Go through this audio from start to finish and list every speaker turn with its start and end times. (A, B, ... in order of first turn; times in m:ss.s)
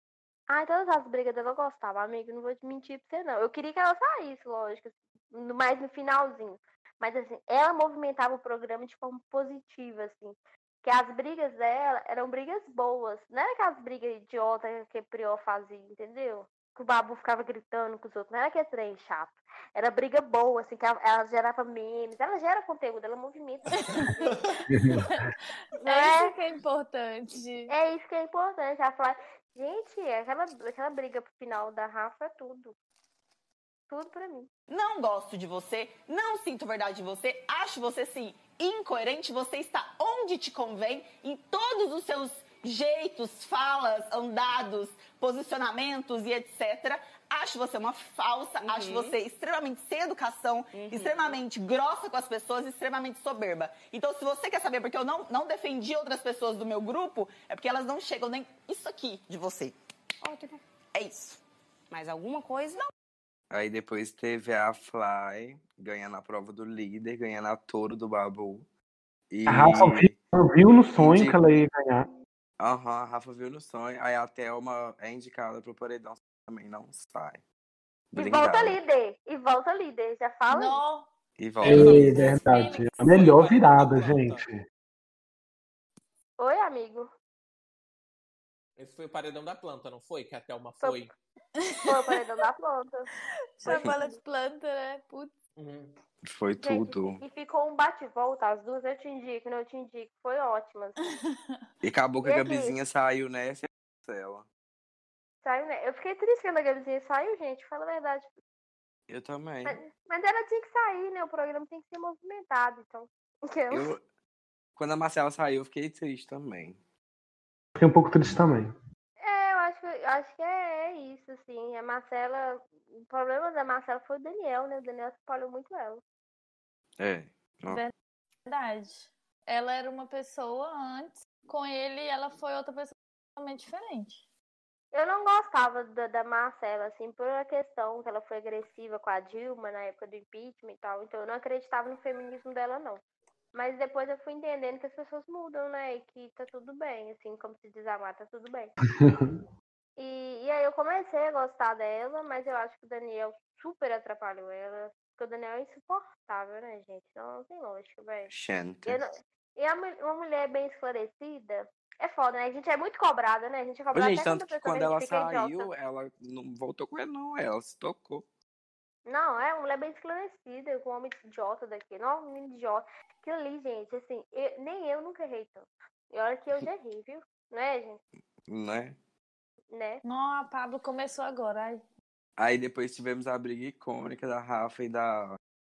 0:00.5-0:24.4 A
0:23.7-0:27.7 B
0:24.7-0:25.1 C
0:25.8-0:26.3 A
0:27.7-0:32.8 A
0:33.9-0:34.5 A
0:34.7-0:59.8 D
1:00.9-1:01.4 D
1:03.5-1:08.7 E
1:09.3-1:10.1 E
1:09.5-1:12.1 C
1:11.0-1:11.4 E
1:12.6-1:17.4 E
1:18.1-1:18.8 E
1:18.2-1:20.8 A
1:20.5-1:21.1 B
1:21.4-1:22.4 E
1:21.6-1:24.4 F
1:21.6-1:24.6 C
1:22.0-1:22.9 B
1:26.4-1:27.1 A
1:28.8-1:31.1 F
1:31.6-1:32.2 B
1:31.8-1:33.1 A
1:33.6-1:35.3 B
1:33.7-1:34.2 A
1:35.6-1:36.0 F
1:36.2-1:37.2 E
1:36.6-1:41.1 A
1:41.0-1:41.6 B
1:41.8-1:44.4 E
1:42.2-1:42.7 A
1:45.4-1:48.3 A
1:49.1-1:49.8 E
1:49.6-1:53.9 A
1:53.7-1:54.0 E
1:54.8-1:56.8 E
1:57.8-1:58.7 C
1:59.2-2:06.0 A
2:07.0-2:07.8 E
2:08.4-2:14.2 B
2:14.9-2:23.0 A
2:23.5-2:28.7 A
2:28.9-2:29.4 C
2:30.0-2:38.3 A
2:38.3-2:39.0 E
2:38.9-2:45.7 A
2:43.9-2:48.3 E
2:49.0-2:58.0 A
2:58.5-2:59.0 E
2:59.7-3:00.0 A
3:00.0-3:01.8 B
3:02.4-3:05.4 E